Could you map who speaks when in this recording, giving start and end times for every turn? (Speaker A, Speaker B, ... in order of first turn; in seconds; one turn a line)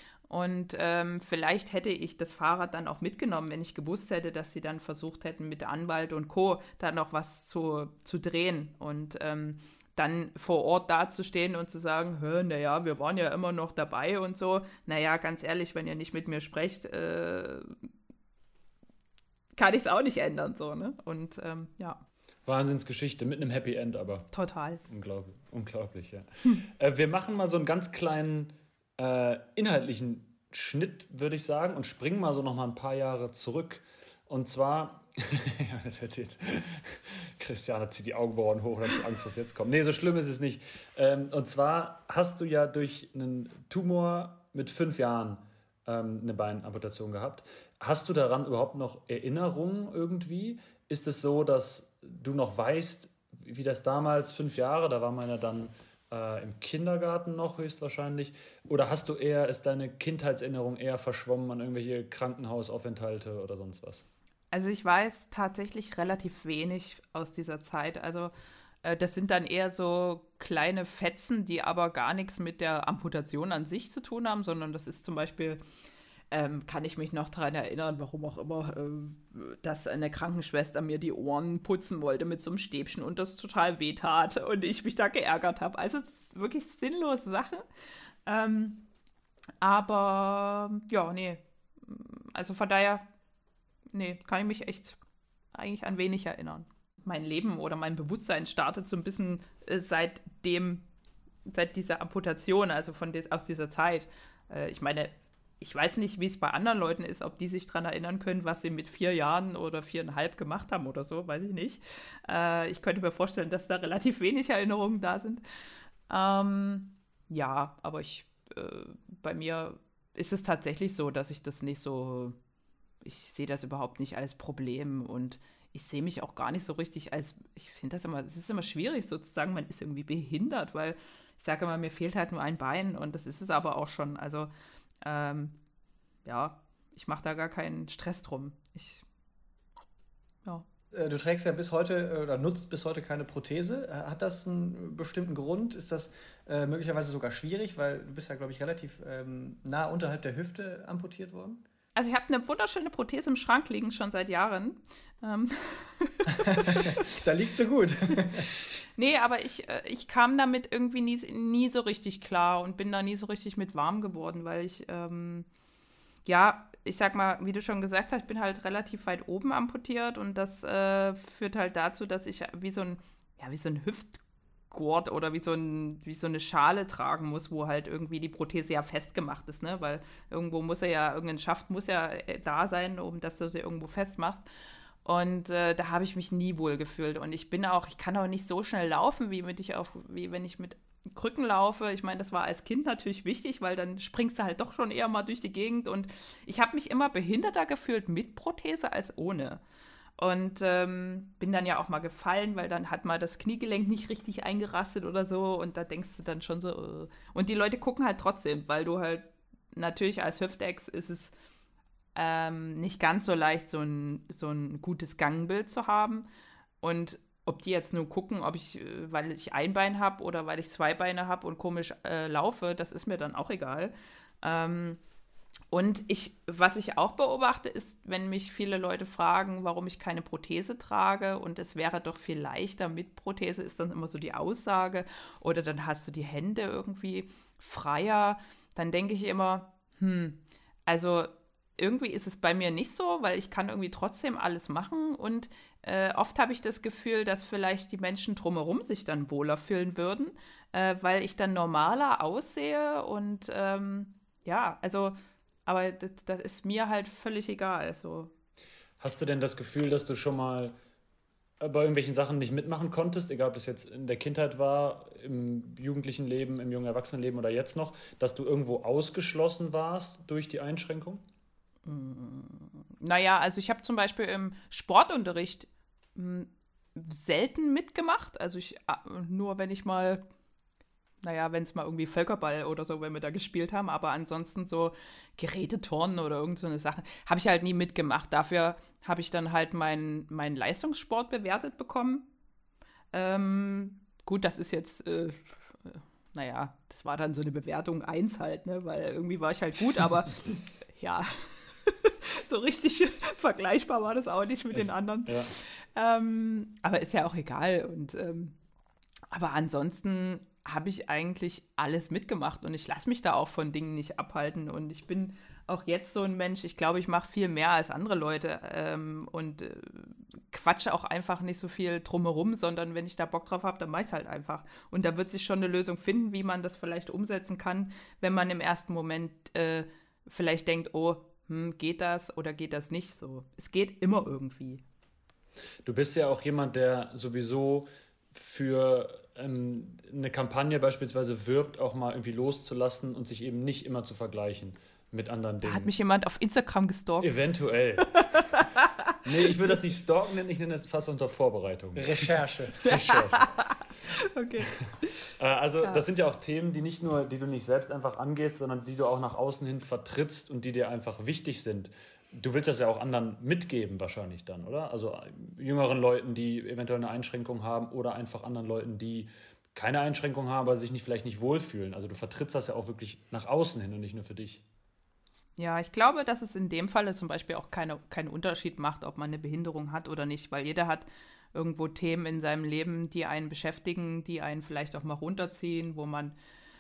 Speaker A: 0.3-17.8
Speaker A: 19.6-22.0
Speaker B: 22.5-24.3
Speaker A: 24.3-24.8
Speaker B: 24.9-64.0
Speaker A: 64.5-68.3
Speaker A: 68.8-75.6
Speaker A: 76.3-87.6
Speaker A: 88.3-88.8
Speaker A: 89.6-93.0
Speaker A: 93.9-95.0
Speaker A: 95.5-100.8
Speaker A: 101.5-115.4
Speaker A: 116.1-122.4
Speaker A: 123.0-134.5
Speaker A: 135.0-135.6
Speaker A: 136.2-139.0
Speaker C: 140.9-151.6
Speaker A: 151.9-157.1
Speaker C: 156.4-158.5
Speaker A: 159.0-165.5
Speaker A: 166.2-184.5
Speaker A: 185.0-199.6
Speaker A: 200.2-211.3
Speaker A: 212.2-216.2
Speaker A: 216.8-225.0
Speaker A: 225.7-258.3
Speaker B: 259.0-260.7
Speaker B: 261.6-271.2
Speaker A: 271.9-280.2
Speaker A: 281.2-292.3
Speaker A: 293.1-300.4
Speaker A: 301.0-308.6
Speaker B: 304.7-305.5
Speaker A: 309.3-334.8
Speaker B: 335.9-345.9
Speaker A: 345.6-347.3
Speaker B: 347.2-348.2
Speaker A: 348.2-349.2
Speaker B: 349.2-353.5
Speaker C: 352.0-352.8
Speaker A: 352.9-354.7
Speaker B: 355.4-374.6
Speaker A: 375.6-386.4